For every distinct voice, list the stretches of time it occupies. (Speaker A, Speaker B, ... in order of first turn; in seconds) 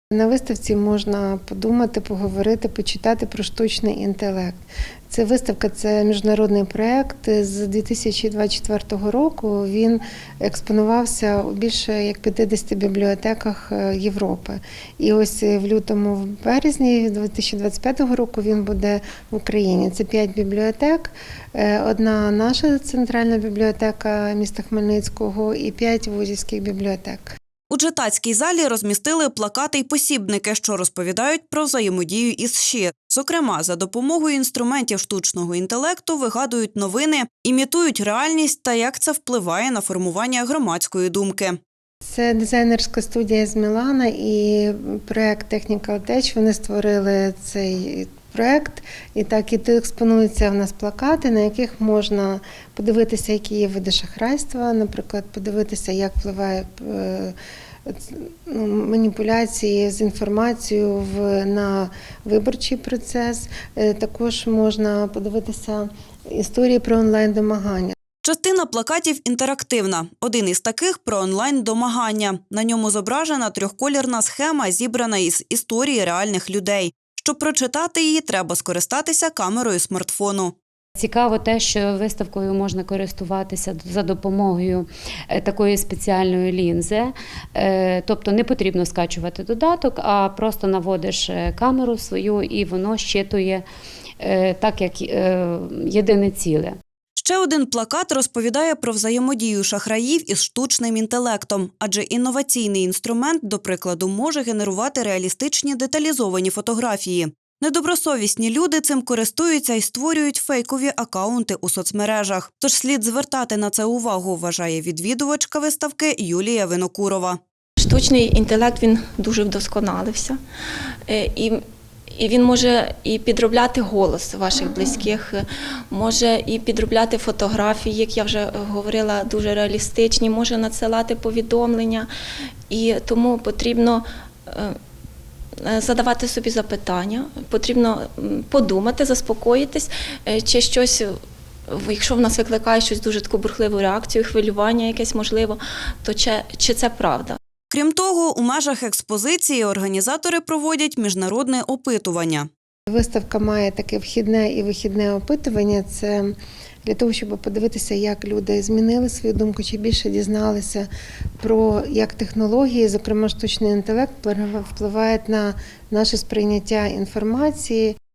Speaker A: 0.1-4.6, 5.1-27.4, 42.0-57.4, 57.9-68.0, 152.9-160.9, 161.4-168.0
Speaker B: 27.7-41.6, 68.2-80.6, 97.2-117.4, 147.7-152.5
Speaker C: 81.0-93.7, 94.2-96.8
Speaker D: 117.8-120.4, 121.1-121.6, 122.1-132.1, 132.7-134.8, 135.6-141.1, 141.7-147.4